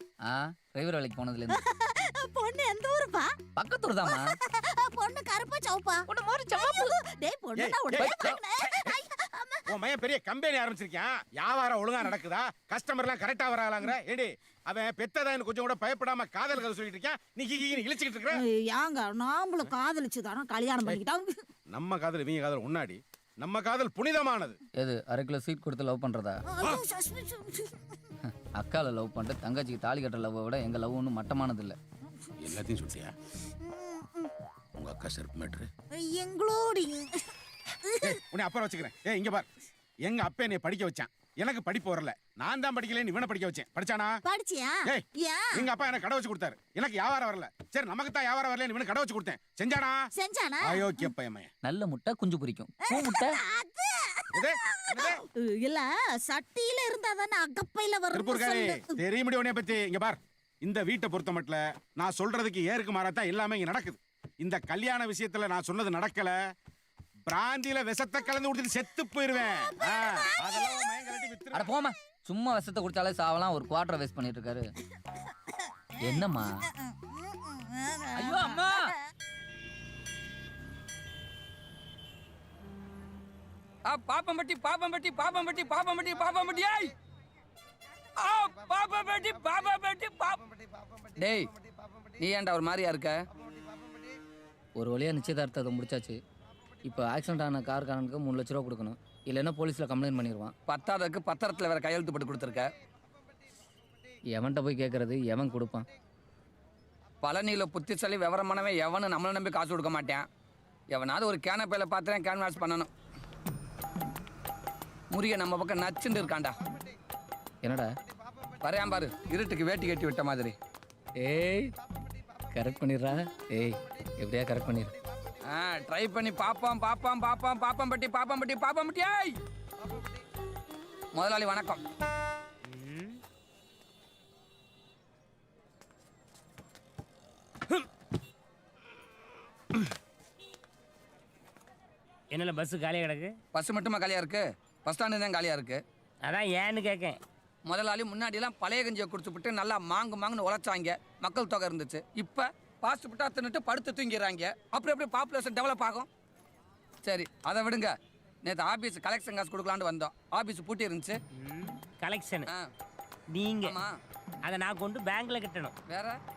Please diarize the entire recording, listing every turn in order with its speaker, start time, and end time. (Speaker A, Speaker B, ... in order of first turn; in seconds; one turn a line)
Speaker A: 0.3-1.6
Speaker B: 1.5-3.4
Speaker A: 3.5-4.2
Speaker B: 4.0-9.6
Speaker C: 7.5-8.3
Speaker A: 8.0-8.4
Speaker C: 9.7-18.4
Speaker B: 18.3-21.4
Speaker C: 21.7-24.6
Speaker A: 24.8-26.4
Speaker B: 26.5-27.7
Speaker A: 28.6-31.8
Speaker C: 32.4-33.1
Speaker B: 33.6-34.3
Speaker C: 34.8-35.7
Speaker B: 35.9-37.2
Speaker B: 37.9-38.2
Speaker C: 38.0-39.4
Speaker C: 40.0-44.2
Speaker B: 44.2-45.7
Speaker C: 45.5-50.0
Speaker B: 50.2-51.0
Speaker C: 50.6-51.5
Speaker A: 51.6-53.4
Speaker B: 52.9-58.9
Speaker C: 54.3-55.2
Speaker C: 58.1-66.3
Speaker C: 67.3-71.7
Speaker B: 69.8-71.0
Speaker A: 71.5-74.7
Speaker A: 76.0-76.5
Speaker B: 76.1-78.9
Speaker D: 78.2-78.8
Speaker D: 83.9-86.9
Speaker D: 88.2-90.4
Speaker D: 91.1-91.5
Speaker D: 92.2-93.2
Speaker A: 94.8-96.2
Speaker A: 96.8-100.5
Speaker D: 100.7-102.7
Speaker A: 104.3-105.8
Speaker D: 107.2-110.2
Speaker D: 110.9-112.9
Speaker D: 115.1-116.5
Speaker A: 117.6-117.9
Speaker D: 118.6-120.5
Speaker A: 121.2-121.7
Speaker A: 122.5-124.9
Speaker D: 125.5-129.4
Speaker D: 131.1-131.8
Speaker E: 132.7-133.2
Speaker E: 142.3-143.3
Speaker D: 143.5-145.8
Speaker E: 146.2-147.2
Speaker D: 147.7-156.1
Speaker D: 157.0-157.9
Speaker D: 158.4-161.2
Speaker E: 161.4-162.5
Speaker E: 163.3-163.8
Speaker D: 163.6-163.9
Speaker E: 164.4-165.7
Speaker D: 165.9-166.2